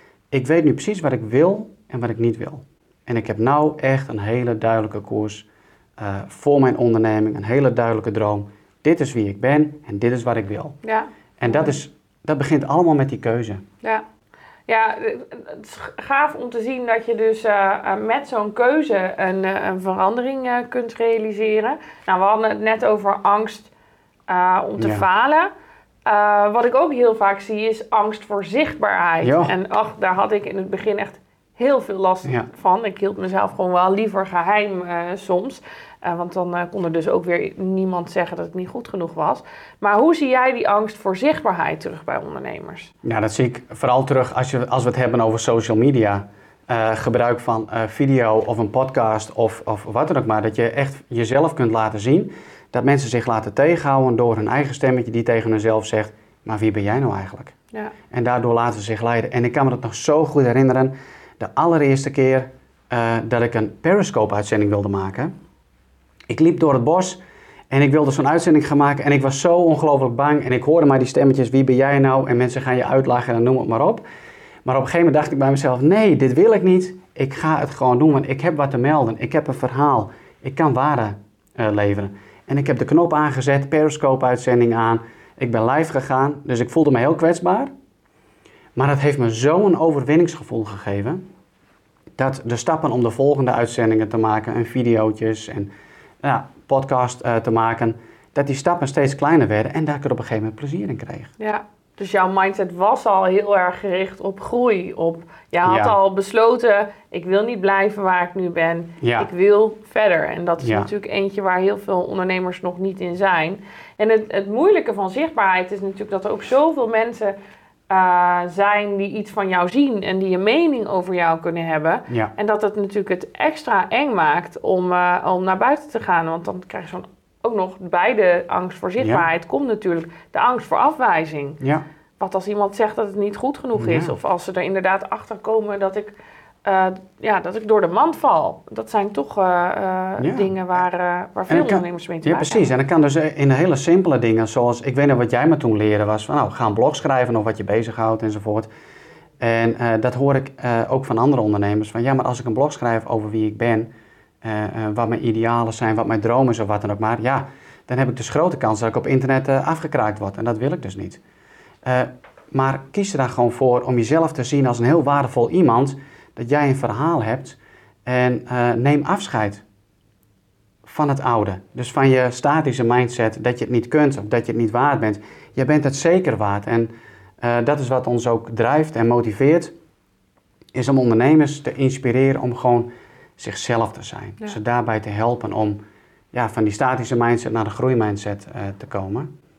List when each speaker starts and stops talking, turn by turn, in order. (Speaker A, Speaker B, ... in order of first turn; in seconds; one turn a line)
Speaker A: 0.3-5.5
Speaker A: 6.0-10.8
Speaker B: 10.8-11.8
Speaker A: 11.4-13.7
Speaker B: 14.7-23.7
Speaker B: 24.3-25.5
Speaker A: 24.8-25.1
Speaker B: 26.1-42.9
Speaker A: 29.2-29.5
Speaker A: 43.0-57.5
Speaker A: 58.1-65.3
Speaker A: 66.3-74.0
Speaker A: 74.6-87.7
Speaker A: 88.8-91.2
Speaker A: 92.2-95.7
Speaker A: 96.2-101.3
Speaker B: 101.4-117.3
Speaker A: 105.6-106.0
Speaker A: 109.0-109.3
Speaker A: 110.6-110.9
Speaker B: 117.9-131.6
Speaker A: 129.0-129.2
Speaker A: 131.6-131.8
Speaker B: 132.2-142.7
Speaker A: 133.8-134.1
Speaker A: 140.2-140.5
Speaker A: 141.5-148.7
Speaker A: 149.4-153.9
Speaker A: 154.4-161.2
Speaker A: 161.8-169.6
Speaker A: 170.8-179.7
Speaker A: 180.7-185.8
Speaker A: 186.3-189.3